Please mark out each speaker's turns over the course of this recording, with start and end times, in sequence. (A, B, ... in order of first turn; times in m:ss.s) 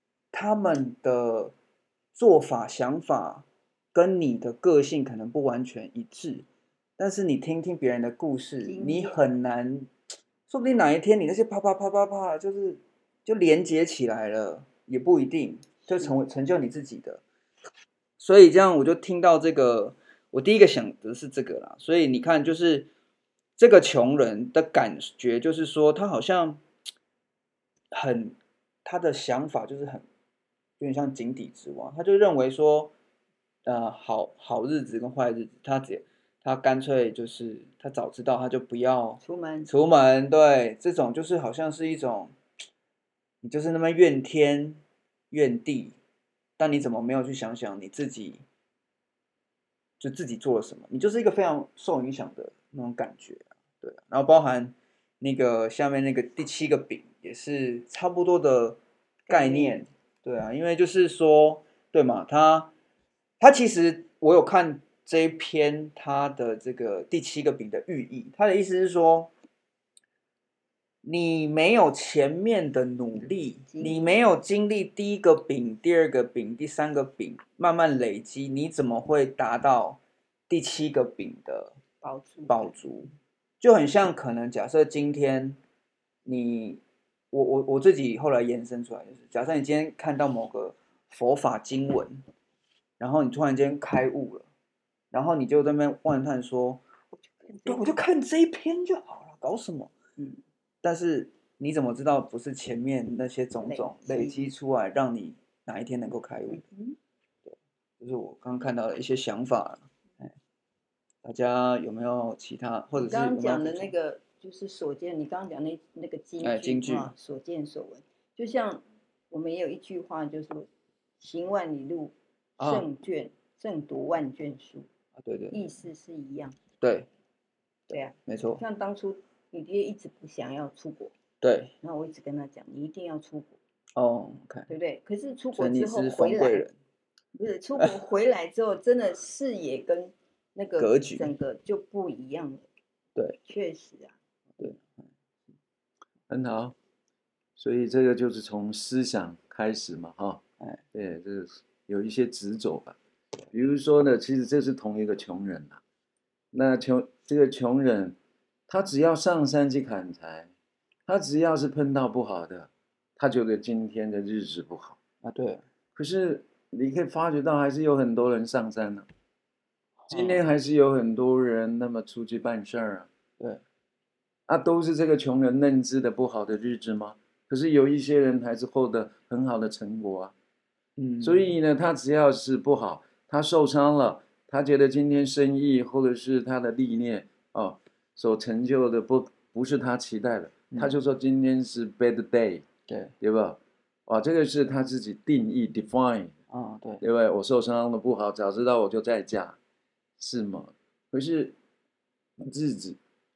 0:00.3-0:01.5 A
0:02.2-0:06.5 A
0:07.0-0:09.9 A
0:08.6-0:09.2 B
0:10.5-0:17.2 A
0:18.2-0:22.9 A
0:23.6-0:26.6 A
0:27.9-0:30.0 A
0:30.8-0:32.9 A
0:33.7-0:42.4 A
0:39.2-0:39.7 B
0:43.4-0:44.8 A
0:45.3-0:46.0 A
0:46.6-0:48.4 A
0:50.0-1:02.7 A
0:59.3-0:59.8 B
1:03.4-1:09.3 A
1:11.0-1:21.8 A
1:13.7-1:14.1 B
1:22.0-1:22.8 B
1:22.5-1:23.1 A
1:23.6-1:25.6 A
1:26.2-1:32.2 A
1:33.0-1:34.5 A
1:35.1-1:36.8 A
1:37.2-1:38.0 B
1:37.6-1:39.9 A
1:40.8-1:46.6 A
1:43.6-1:44.4 B
1:46.5-1:47.0 B
1:47.5-1:50.3 A
1:51.2-1:53.9 A
1:53.0-2:00.7 B
1:56.4-1:57.1 A
2:01.2-2:04.9 B
2:02.6-2:02.9 A
2:05.2-2:05.6 A
2:05.5-2:06.6 B
2:06.8-2:07.1 A
2:07.9-2:08.6 A
2:07.9-2:11.1 B
2:11.4-2:11.7 A
2:11.8-2:13.6 B
2:14.0-2:14.7 A
2:14.7-2:16.7 B
2:15.6-2:16.7 A
2:17.4-2:22.7 B
2:20.8-2:21.3 A
2:23.5-2:24.2 B
2:24.6-2:25.0 A
2:26.3-2:26.8 C
2:27.6-2:30.4 C
2:30.9-2:33.0 C
2:33.5-2:35.8 C
2:36.5-2:38.2 C
2:38.7-2:40.5 C
2:41.1-2:45.0 C
2:45.2-2:45.6 A
2:46.0-2:49.1 C
2:50.0-2:50.4 A
2:50.1-2:53.1 C
2:54.5-3:00.3 C
3:01.0-3:01.6 A
3:01.2-3:12.7 C
3:12.9-3:13.1 A
3:13.2-3:16.4 C
3:16.5-3:17.0 A
3:17.0-3:19.6 C
3:20.2-3:21.6 C
3:22.4-3:23.0 C